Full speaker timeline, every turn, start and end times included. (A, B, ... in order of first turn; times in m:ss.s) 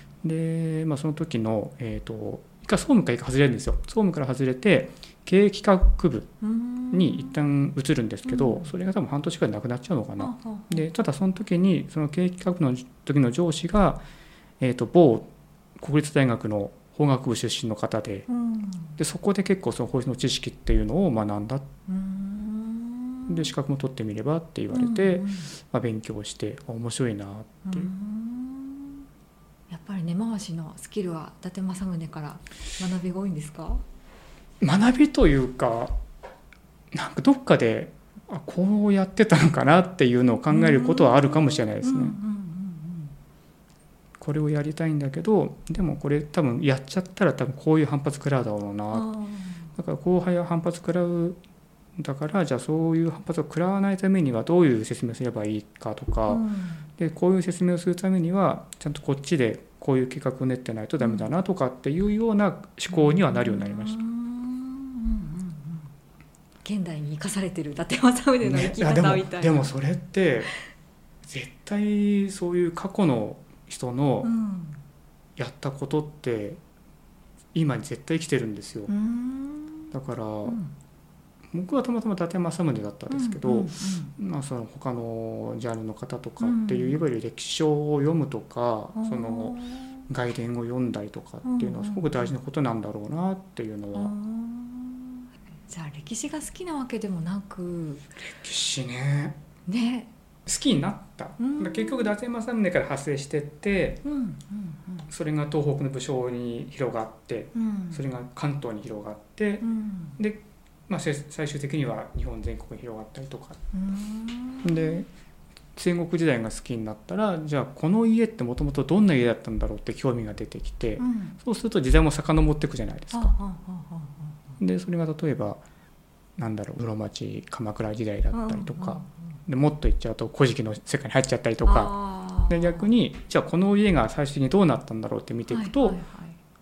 0:00.2-0:06.3 A
0:06.4-0:07.4 B
0:06.9-0:14.0 A
0:08.2-0:08.7 B
0:10.2-0:10.8 B
0:14.6-0:18.3 A
0:18.3-0:19.0 B
0:19.0-0:21.6 A
0:21.9-0:23.5 B
0:23.3-0:27.9 A
0:24.7-0:25.5 B
0:27.6-0:29.0 B
0:29.7-0:33.8 B
0:34.6-0:35.9 A
0:36.9-0:42.2 A
0:40.5-0:43.1 B
0:44.2-0:49.1 A
0:48.9-0:49.7 B
0:49.7-0:51.4 A
0:52.0-0:56.4 A
0:56.3-0:56.9 B
0:57.0-1:04.0 A
1:01.0-1:01.3 B
1:02.9-1:05.9 B
1:06.6-1:09.7 B
1:08.4-1:10.5 A
1:11.2-1:14.3 A
1:14.2-1:14.8 B
1:15.4-1:16.6 A
1:17.5-1:18.9 A
1:18.9-1:19.9 B
1:19.9-1:20.6 A
1:20.4-1:20.7 B
1:21.5-1:34.1 A
1:23.1-1:24.1 B
1:26.4-1:27.0 B
1:28.9-1:30.0 B
1:31.4-1:32.3 B
1:33.9-1:38.1 B
1:38.2-1:39.4 A
1:39.7-1:40.1 B
1:40.4-1:44.0 A
1:41.4-1:42.2 B
1:44.0-1:45.1 B
1:45.1-1:49.6 A
1:47.5-1:48.0 B
1:49.6-1:50.2 B
1:50.2-1:53.6 A
1:53.7-1:55.0 B
1:54.6-1:55.1 A
1:55.8-2:03.3 A
2:01.0-2:01.4 B
2:03.1-2:04.4 B
2:04.6-2:05.6 A
2:06.4-2:16.0 A
2:08.3-2:09.4 B
2:11.6-2:12.9 B
2:15.5-2:16.4 B